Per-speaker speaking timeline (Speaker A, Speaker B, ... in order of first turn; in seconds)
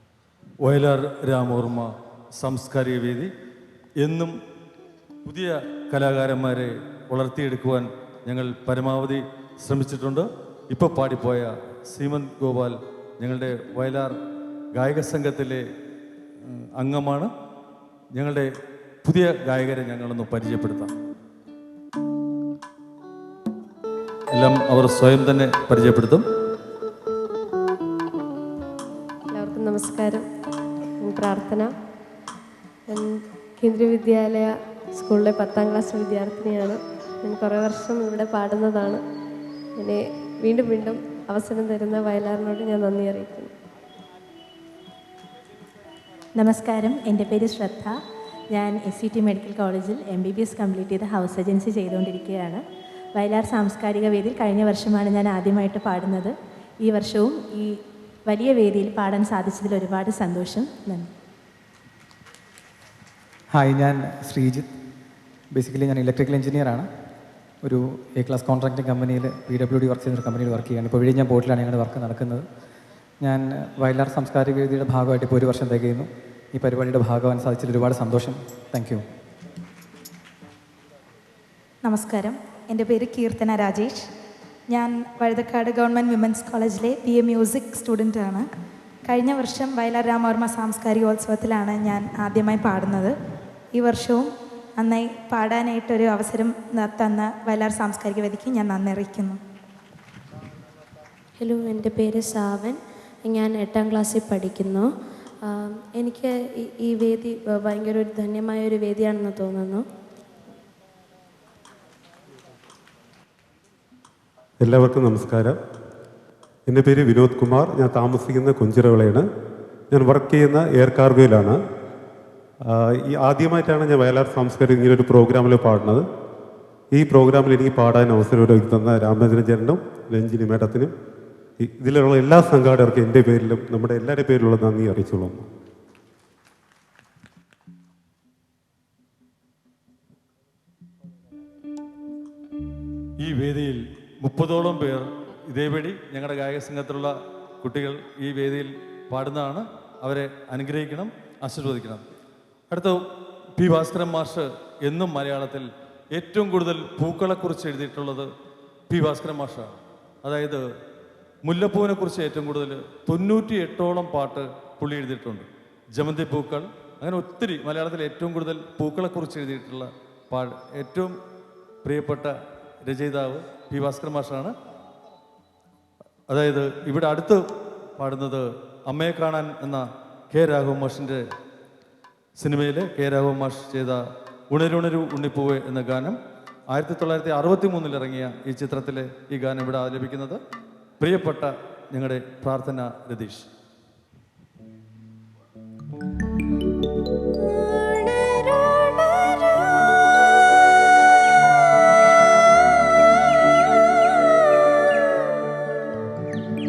Speaker A: 0.6-3.3, 4.0-4.3, 5.3-14.1, 14.8-15.6, 16.5-17.3, 18.2-18.5, 19.1-20.9, 24.4-26.2, 143.2-152.0, 152.7-153.0, 153.6-158.3, 158.9-159.6, 160.2-160.6, 161.5-165.4, 166.0-171.0, 171.9-172.3, 172.9-174.5, 176.3-177.4, 178.0-179.8, 180.3-181.2, 182.4-184.0, 184.5-186.2, 186.7-190.4, 191.0-193.5, 197.5-201.1, 203.9-206.0
Speaker B: 29.3-30.3, 31.0-31.7, 32.9-39.0, 39.8-43.5
Speaker C: 46.4-47.9, 48.5-52.6, 53.1-61.1
Speaker D: 63.5-64.7, 65.5-66.9, 67.6-72.5, 73.2-79.0
Speaker E: 81.8-84.1, 84.7-88.5, 89.0-93.1, 93.7-99.4
Speaker F: 101.4-104.9, 105.4-109.8
Speaker G: 114.6-115.6, 116.7-119.3, 119.9-121.6, 122.7-126.0, 126.9-130.9, 131.6-135.5